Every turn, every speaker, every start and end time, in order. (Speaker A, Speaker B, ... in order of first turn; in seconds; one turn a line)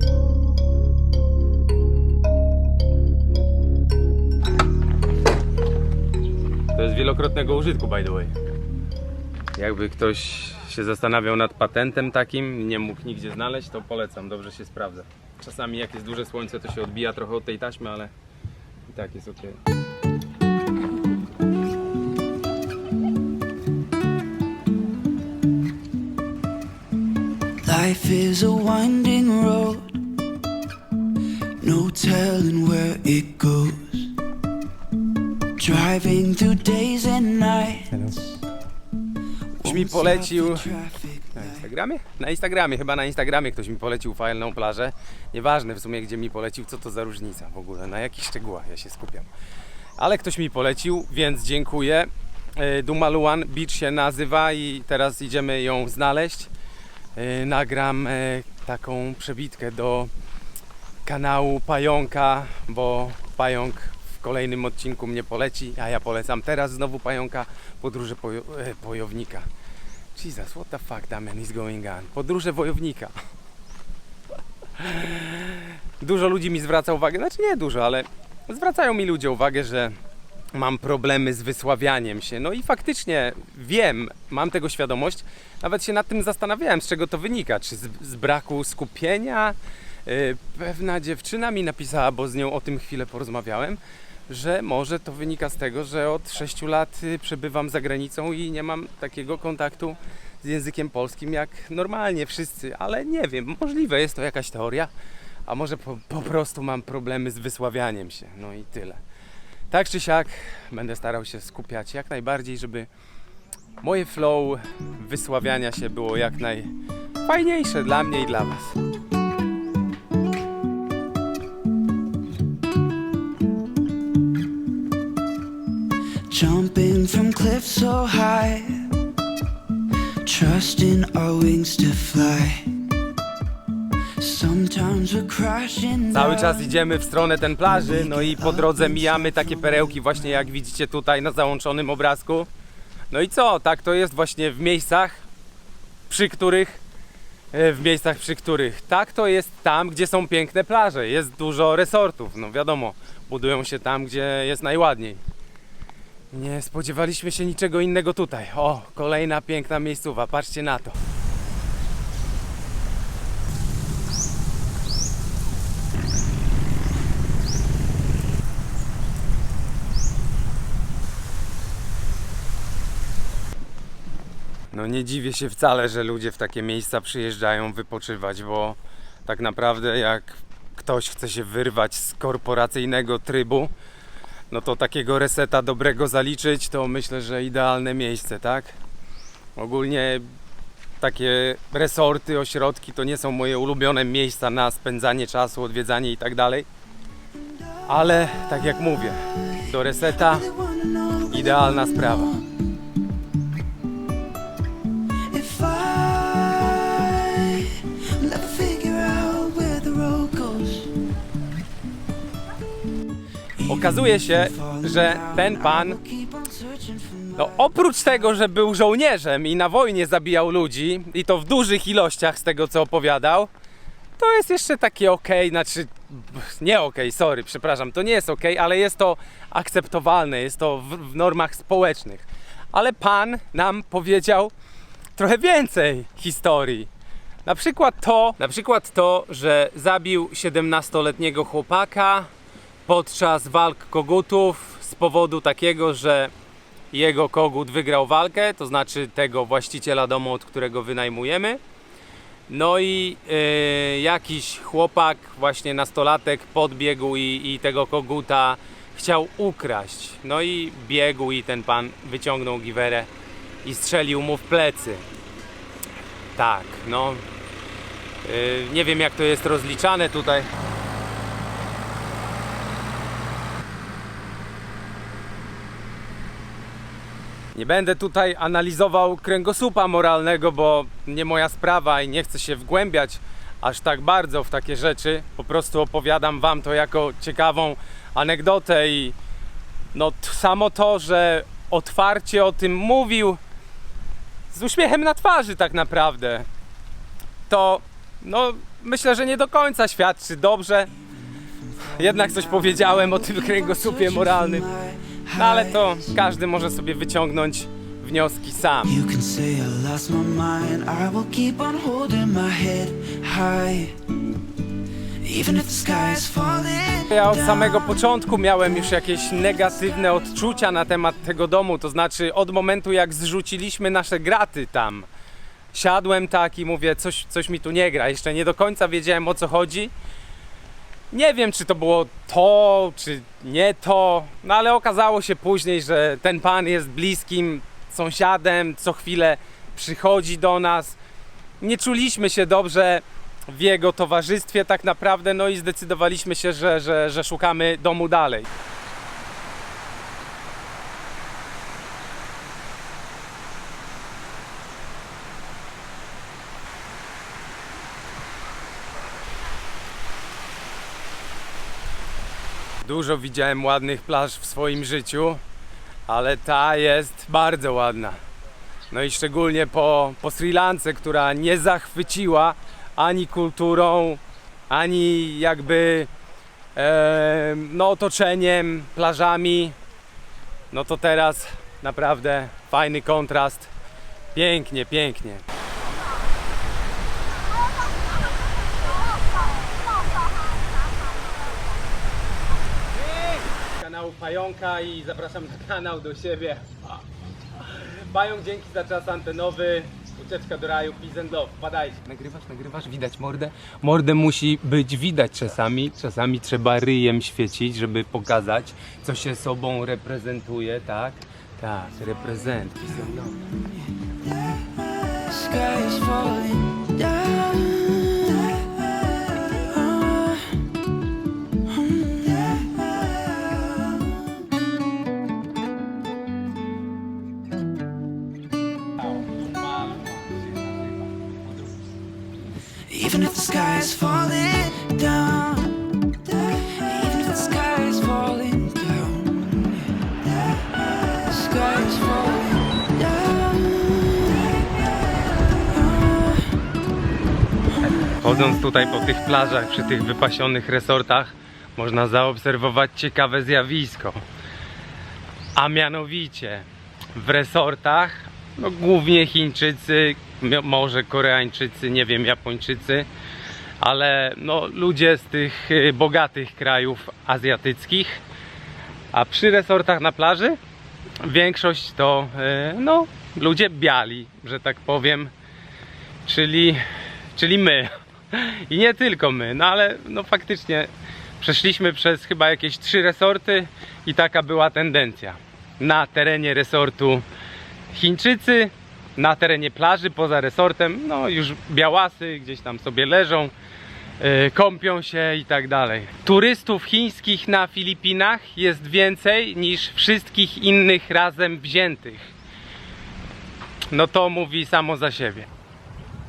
Speaker A: 6.7-8.3
Speaker A: 9.5-18.1
Speaker A: 18.9-19.6
Speaker B: 27.6-30.1
Speaker B: 31.6-34.2
Speaker B: 35.5-38.2
Speaker A: 37.9-38.2
Speaker B: 39.6-41.7
Speaker A: 39.6-40.8
Speaker A: 41.3-49.3
Speaker A: 50.0-56.5
Speaker A: 57.1-60.1
Speaker A: 61.0-69.5
Speaker A: 70.1-73.1
Speaker A: 74.8-79.9
Speaker A: 80.5-104.9
Speaker A: 105.5-109.0
Speaker A: 109.7-112.9
Speaker A: 113.8-116.7
Speaker A: 117.2-118.8
Speaker B: 126.3-128.9
Speaker B: 130.2-132.9
Speaker B: 134.2-136.8
Speaker A: 136.1-142.5
Speaker B: 137.6-140.5
Speaker A: 143.1-145.2
Speaker A: 146.1-146.8
Speaker A: 147.5-155.2
Speaker A: 156.3-160.9
Speaker A: 174.7-183.7
Speaker A: 184.5-188.8
Speaker A: 189.6-190.2
Speaker A: 191.0-196.7
Speaker A: 197.9-200.5
Speaker B: 199.5-202.6
Speaker A: 201.3-202.4
Speaker B: 205.3-211.0
Speaker B: 213.6-217.7
Speaker A: 213.6-216.0
Speaker A: 217.4-223.5
Speaker A: 224.2-234.5
Speaker A: 235.2-236.9
Speaker A: 237.4-242.3
Speaker A: 242.9-246.3
Speaker A: 246.9-251.6
Speaker A: 252.5-263.1
Speaker A: 263.6-265.0
Speaker A: 266.4-267.2
Speaker A: 268.2-270.5
Speaker A: 277.5-289.1
Speaker A: 289.9-293.4
Speaker A: 294.5-296.5
Speaker A: 297.5-300.9
Speaker B: 301.1-306.1
Speaker A: 302.0-304.7
Speaker A: 305.3-308.9
Speaker B: 308.8-314.3
Speaker B: 315.2-317.9
Speaker A: 317.1-325.1
Speaker A: 325.7-329.9
Speaker A: 331.1-341.0
Speaker A: 341.6-348.5
Speaker A: 362.8-365.4
Speaker A: 366.1-368.2
Speaker A: 368.9-376.1
Speaker A: 376.7-379.7
Speaker A: 380.7-383.7
Speaker A: 384.3-385.4
Speaker A: 393.6-397.0
Speaker A: 397.6-413.4
Speaker B: 413.2-420.7
Speaker B: 421.6-424.5
Speaker A: 429.2-430.5
Speaker B: 432.9-446.4
Speaker A: 448.2-454.2
Speaker A: 455.6-463.1
Speaker A: 463.8-468.2
Speaker A: 469.1-470.6
Speaker A: 471.2-475.3
Speaker A: 476.2-476.8
Speaker A: 477.3-480.9
Speaker A: 481.4-487.2
Speaker A: 487.9-493.5
Speaker A: 494.2-502.3
Speaker A: 503.9-505.5